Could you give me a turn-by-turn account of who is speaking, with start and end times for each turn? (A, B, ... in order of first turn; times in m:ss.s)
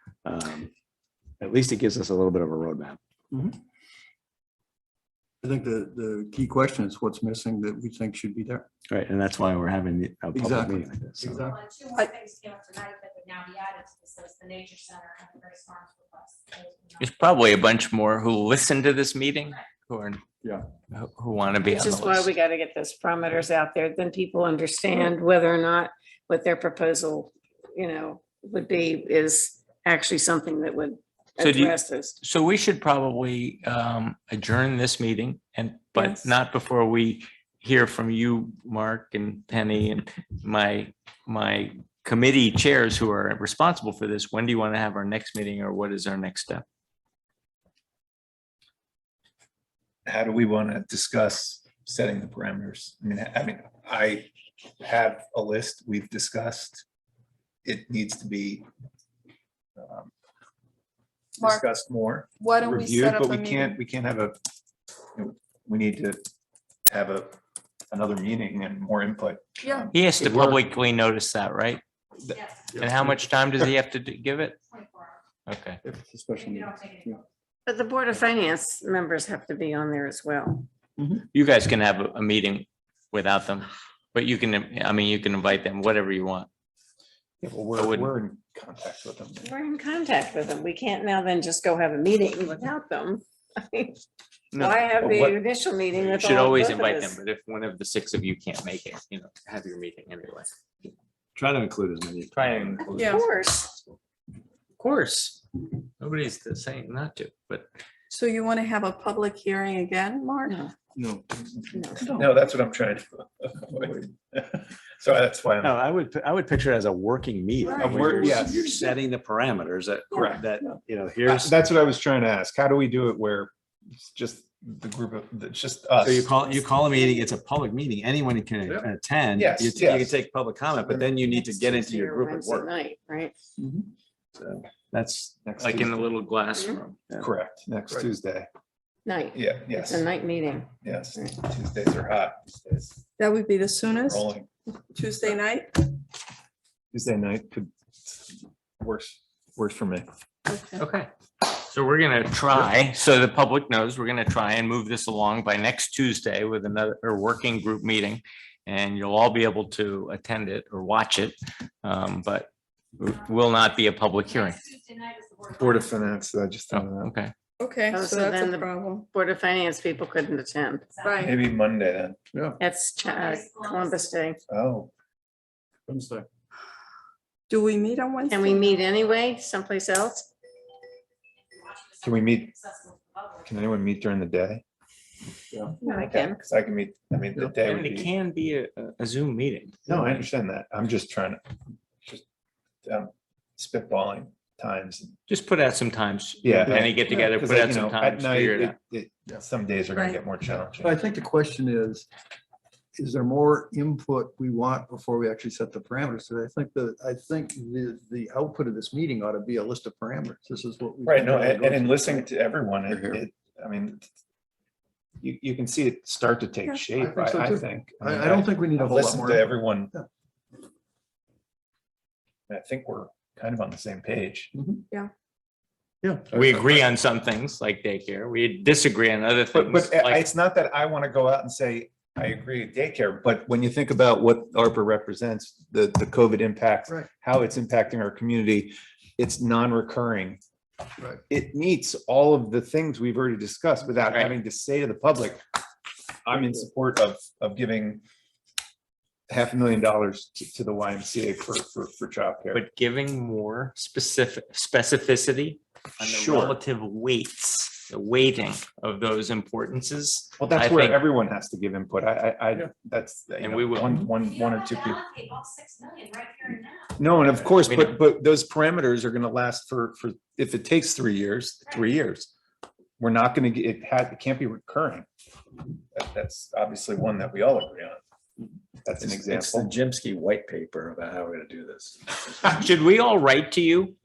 0:00.2-0:00.7 A
0:01.4-0:03.0 A
0:03.3-0:03.6 B
0:05.4-0:08.6 B
0:08.9-0:11.4 A
0:10.3-0:11.7 B
0:11.6-0:17.0 C
0:17.0-0:20.2 D
0:20.9-0:22.3 D
0:21.7-0:32.2 E
0:31.4-0:46.6 D
0:50.0-0:54.3 F
0:54.8-0:56.8 F
0:57.6-0:58.6 F
0:59.8-1:00.1 F
1:01.4-1:04.4 F
1:02.4-1:03.8 G
1:05.1-1:06.2 F
1:06.9-1:07.4 F
1:07.9-1:10.6 F
1:09.9-1:11.8 D
1:12.7-1:13.2 B
1:12.7-1:14.6 D
1:14.8-1:15.1 C
1:15.5-1:15.8 D
1:15.8-1:17.2 B
1:17.6-1:20.7 E
1:21.0-1:21.2 B
1:21.3-1:26.5 D
1:27.4-1:29.5 F
1:27.8-1:28.1 D
1:29.4-1:34.0 E
1:34.5-1:37.2 E
1:34.5-1:35.3 D
1:36.0-1:40.5 D
1:41.3-1:43.0 A
1:42.3-1:43.2 D
1:42.9-1:43.2 G
1:43.0-1:43.8 E
1:44.8-1:45.4 D
1:46.0-1:47.7 D
1:48.1-1:50.6 G
1:50.5-1:50.7 E
1:50.9-1:51.2 B
1:51.6-1:55.8 F
1:51.7-1:52.1 E
1:55.6-2:01.6 A
1:57.6-1:58.6 G
1:57.8-1:58.6 F
2:00.1-2:00.4 F
2:01.2-2:06.3 F
2:06.0-2:12.7 A
2:09.3-2:10.2 F
2:11.2-2:13.3 E
2:13.6-2:13.9 B
2:14.4-2:15.4 A
2:15.4-2:16.0 F
2:15.6-2:17.0 D
2:17.2-2:18.5 F
2:19.0-2:21.4 E
2:19.3-2:20.1 F
2:20.8-2:22.9 F
2:23.2-2:24.2 G
2:23.9-2:24.5 F
2:24.9-2:25.7 G
2:26.9-2:30.0 F
2:30.5-2:30.8 G
2:30.8-2:44.7 D
2:45.4-2:47.1 F
2:46.7-2:47.3 D
2:47.6-2:49.0 G
2:47.9-2:51.0 E
2:51.0-2:51.3 G
2:51.2-2:52.2 F
2:52.6-2:54.4 E
2:54.5-2:54.9 F
2:55.9-2:56.2 B
2:57.5-2:58.7 G
2:58.3-3:00.3 E
3:02.0-3:02.7 F
3:03.4-3:04.6 F
3:05.8-3:06.4 E
3:05.8-3:08.1 F
3:07.6-3:09.8 D
3:09.8-3:11.4 F
3:09.9-3:10.2 B
3:12.8-3:15.2 F
3:15.3-3:18.7 D
3:16.4-3:21.0 F
3:20.7-3:22.0 B
3:23.0-3:32.2 B
3:31.0-3:34.0 F
3:32.9-3:33.2 B
3:35.2-3:39.9 F
3:36.9-3:40.0 B
3:42.5-3:44.5 F
3:44.5-3:44.8 B
3:46.0-3:46.4 B
3:46.3-3:50.2 D
3:49.5-4:00.4 F
4:01.3-4:05.4 F
4:04.1-4:04.3 D
4:06.2-4:08.0 F
4:09.3-4:12.6 F
4:12.5-4:21.0 D
4:16.0-4:16.6 F
4:20.4-4:25.0 F
4:23.4-4:24.0 D
4:24.4-4:26.9 C
4:27.0-4:32.3 F
4:27.6-4:28.0 D
4:33.0-4:35.0 F
4:35.9-4:38.0 F
4:38.8-4:39.7 F
4:39.0-4:42.3 A
4:42.4-4:43.9 D